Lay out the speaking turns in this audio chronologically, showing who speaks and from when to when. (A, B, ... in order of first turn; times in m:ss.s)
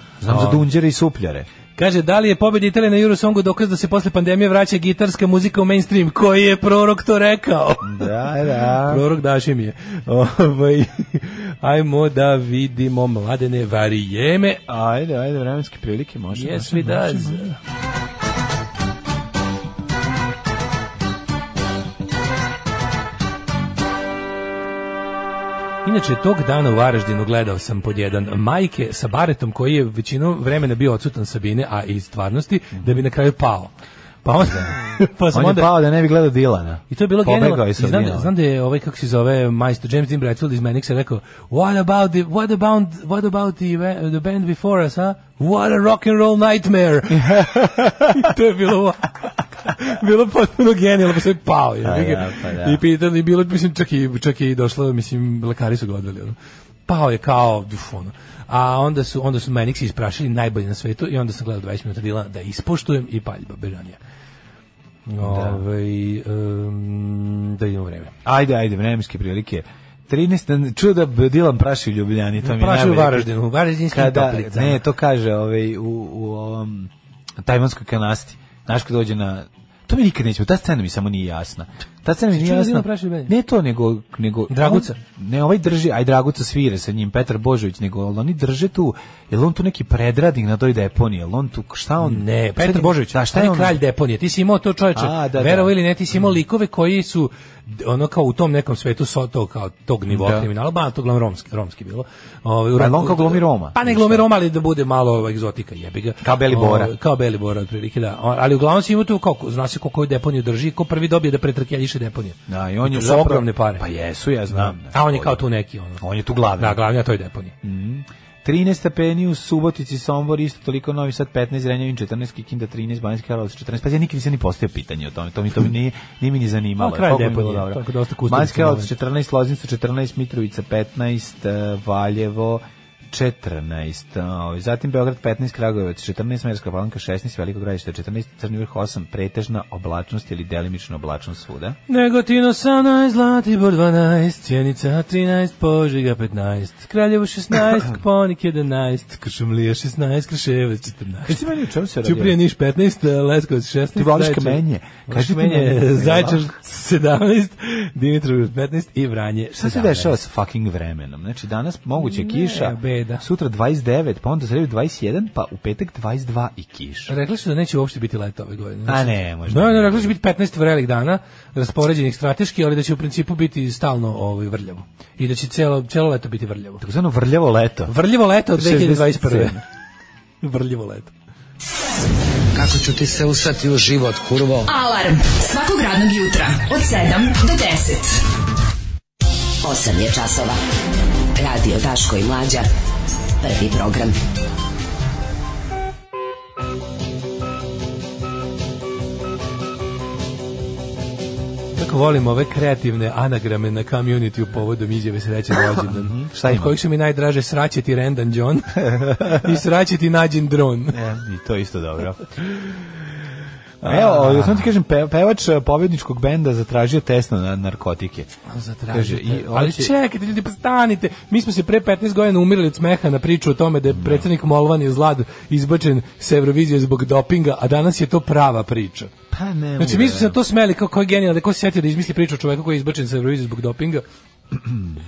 0:00.2-0:01.5 A
0:00.3-0:00.6 B
0:01.8-0:14.6 B
0:07.8-0:09.0 A
0:14.7-0:17.5 A
0:16.3-0:17.6 B
0:25.8-0:33.7 B
0:32.8-0:33.0 A
0:34.2-0:35.7 B
0:34.4-0:34.8 A
0:35.3-0:38.3 A
0:36.9-0:56.4 B
0:47.1-0:48.3 A
0:51.8-0:52.8 A
0:56.9-1:04.0 B
1:05.1-1:08.1 B
1:05.2-1:05.6 A
1:08.2-1:13.3 A
1:12.4-1:14.8 B
1:13.9-1:16.9 A
1:17.4-1:33.8 A
1:22.3-1:23.3 B
1:24.5-1:25.0 B
1:32.0-1:53.8 B
1:35.0-1:36.2 A
1:40.1-1:40.5 A
1:42.8-1:44.3 A
1:46.2-1:46.9 A
1:52.5-1:55.4 A
1:54.5-1:56.0 B
1:56.0-1:56.8 A
1:56.6-1:57.5 B
1:57.6-2:21.8 A
2:06.8-2:08.9 B
2:21.9-2:31.4 B
2:31.2-2:32.4 A
2:32.0-2:40.2 B
2:34.0-2:36.5 A
2:39.6-2:47.1 A
2:42.0-2:43.2 B
2:47.1-2:56.8 B
2:48.9-2:50.2 A
2:56.8-2:58.0 A
2:57.9-2:59.6 B
2:58.5-2:59.6 A
3:00.4-3:01.1 B
3:02.5-3:04.7 C
3:04.6-3:08.2 D
3:09.6-3:10.6 E
3:11.3-3:12.7 E
3:13.4-3:14.2 E
3:21.8-3:31.0 B
3:25.7-3:26.8 A
3:28.8-3:29.6 A
3:30.9-3:32.5 A
3:33.8-3:34.7 B
3:33.8-3:38.3 A
3:38.5-3:49.1 B
3:38.9-3:39.9 A
3:43.9-3:44.3 A
3:49.3-3:50.4 A
3:49.8-3:54.0 B